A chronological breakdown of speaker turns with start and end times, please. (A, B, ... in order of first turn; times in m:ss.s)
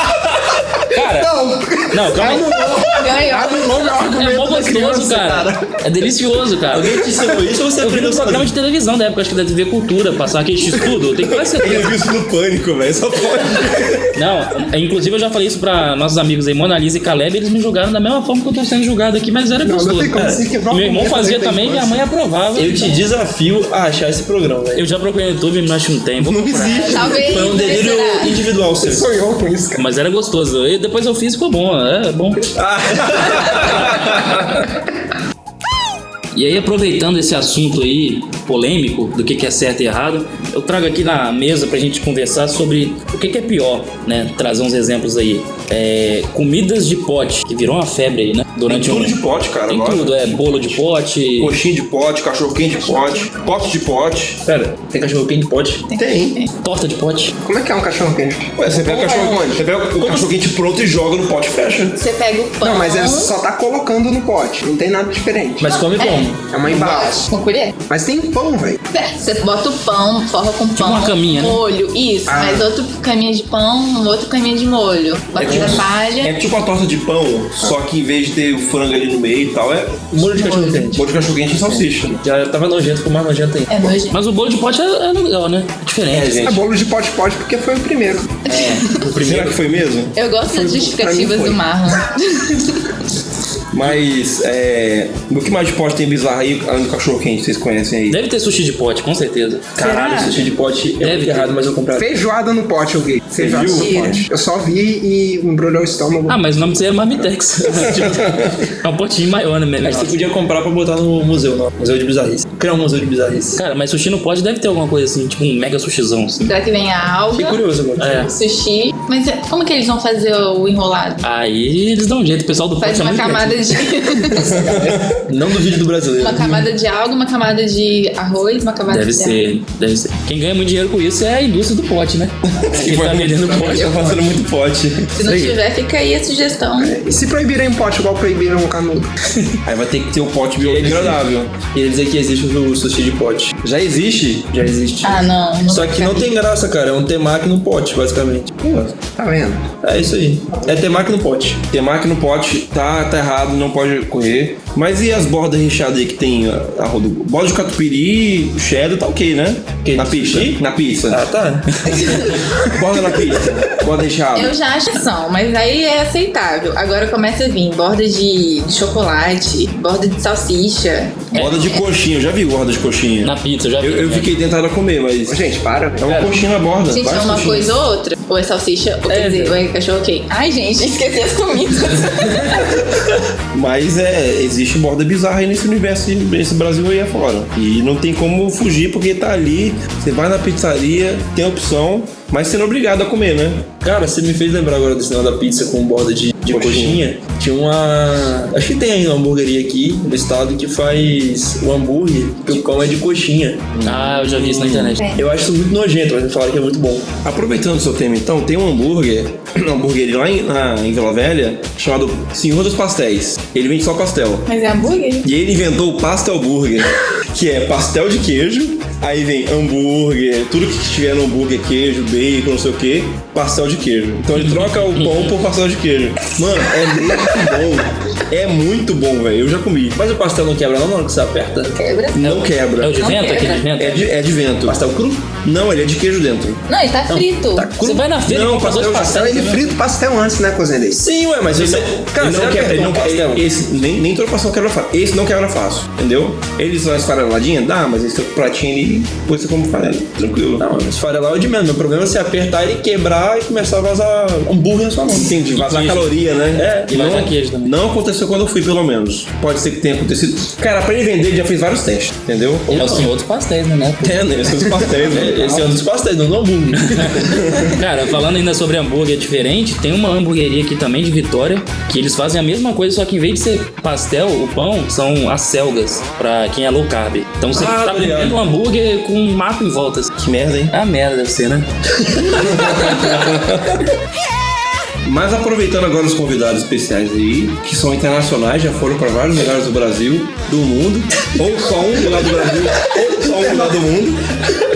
0:00.9-0:01.3 A
0:01.0-0:05.7 B
0:01.9-0:02.7 A
0:02.9-0:04.0 C
0:04.0-0:07.0 A
0:06.7-0:08.5 D
0:07.8-0:12.0 A
0:11.5-0:14.1 E
0:14.1-0:23.0 A
0:19.6-0:22.0 B
0:22.6-0:24.8 D
0:24.8-0:27.2 A
0:26.2-0:27.2 E
0:26.8-0:28.4 C
0:27.2-0:29.1 D
0:28.8-0:29.8 B
0:29.8-0:32.5 A
0:32.5-0:34.7 E
0:36.3-0:51.6 A
0:48.7-0:50.8 E
0:51.4-0:54.4 E
0:54.4-0:55.9 D
0:55.9-0:56.5 C
0:55.9-0:56.4 E
0:56.6-0:57.3 A
0:57.4-0:59.6 B
0:58.6-1:02.0 E
0:58.8-1:00.3 A
1:02.0-1:03.3 C
1:02.6-1:05.7 B
1:05.6-1:06.4 D
1:06.0-1:07.7 C
1:06.5-1:07.2 B
1:07.9-1:08.8 B
1:08.9-1:16.3 C
1:10.8-1:11.6 A
1:12.3-1:12.7 B
1:15.4-1:15.8 D
1:15.4-1:20.3 E
1:20.1-1:21.1 D
1:20.8-1:22.2 E
1:22.2-1:23.9 D
1:23.7-1:24.2 C
1:24.1-1:26.6 A
1:26.1-1:26.6 E
1:26.4-1:28.6 B
1:28.5-1:28.9 C
1:28.5-1:28.8 A
1:29.0-1:29.5 D
1:29.1-1:30.2 E
1:30.1-1:32.7 C
1:30.5-1:31.6 B
1:33.7-1:38.2 E
1:38.1-1:39.8 A
1:39.7-1:42.2 D
1:39.8-1:40.3 C
1:41.0-1:41.5 A
1:41.9-1:46.8 B
1:43.4-1:44.1 E
1:43.7-1:44.2 C
1:46.3-1:50.2 A
1:48.0-1:48.6 E
1:49.8-1:53.6 D
1:53.6-1:56.5 A
1:56.4-1:57.6 C
1:57.3-1:58.3 D
1:58.0-1:58.3 A
1:58.1-2:01.2 C
2:01.2-2:03.8 A
2:02.8-2:04.8 C
2:04.4-2:05.2 E
2:05.2-2:06.7 D
2:06.2-2:09.4 C
2:08.9-2:14.2 A
2:12.5-2:15.2 E
2:13.6-2:14.1 B
2:15.2-2:17.0 C
2:15.2-2:15.6 A
2:16.8-2:19.1 B
2:19.6-2:21.6 E
2:20.6-2:23.6 D
2:23.6-2:24.6 E
2:24.5-2:28.8 D
2:25.0-2:26.3 C
2:29.0-2:29.7 B
2:29.8-2:31.6 D
2:31.7-2:41.2 E
2:39.8-2:42.4 D
2:42.1-2:44.5 E
2:44.3-2:51.8 C
2:51.3-2:57.7 E
2:51.4-2:51.6 A
2:53.2-2:54.3 A
2:55.3-2:56.2 B
2:56.9-3:02.8 C
2:59.1-2:59.6 A
3:03.5-3:13.7 E
3:13.8-3:23.7 D
3:16.5-3:17.0 E
3:23.7-3:24.9 E
3:23.8-3:25.0 A
3:24.5-3:27.2 D
3:27.2-3:34.5 E
3:34.5-3:35.3 C
3:35.2-3:50.0 E
3:44.4-3:45.3 A
3:50.0-3:51.8 D
3:51.7-3:52.4 C
3:52.1-3:53.0 E
3:52.2-3:54.1 A
3:53.0-3:53.6 C
3:53.8-3:54.8 E
3:54.7-3:55.3 D
3:55.3-3:56.6 E
3:56.7-3:57.7 C
3:57.1-3:58.0 D
3:57.8-3:59.7 A
3:58.2-3:59.2 E
3:58.9-4:01.0 B
4:00.9-4:03.4 D
4:01.5-4:10.6 E
4:10.6-4:16.0 D
4:15.1-4:23.0 E
4:16.6-4:16.9 D
4:16.9-4:17.8 A
4:22.7-4:24.3 A
4:22.7-4:23.0 D
4:24.0-4:25.8 E
4:25.0-4:27.6 D
4:26.9-4:40.1 A
4:27.5-4:27.7 E
4:37.5-4:38.4 E
4:37.8-4:38.2 D
4:40.2-4:40.8 E
4:40.7-4:41.7 A
4:42.2-4:43.3 A
4:42.4-4:43.9 E
4:45.0-4:54.3 E
4:52.9-4:53.8 B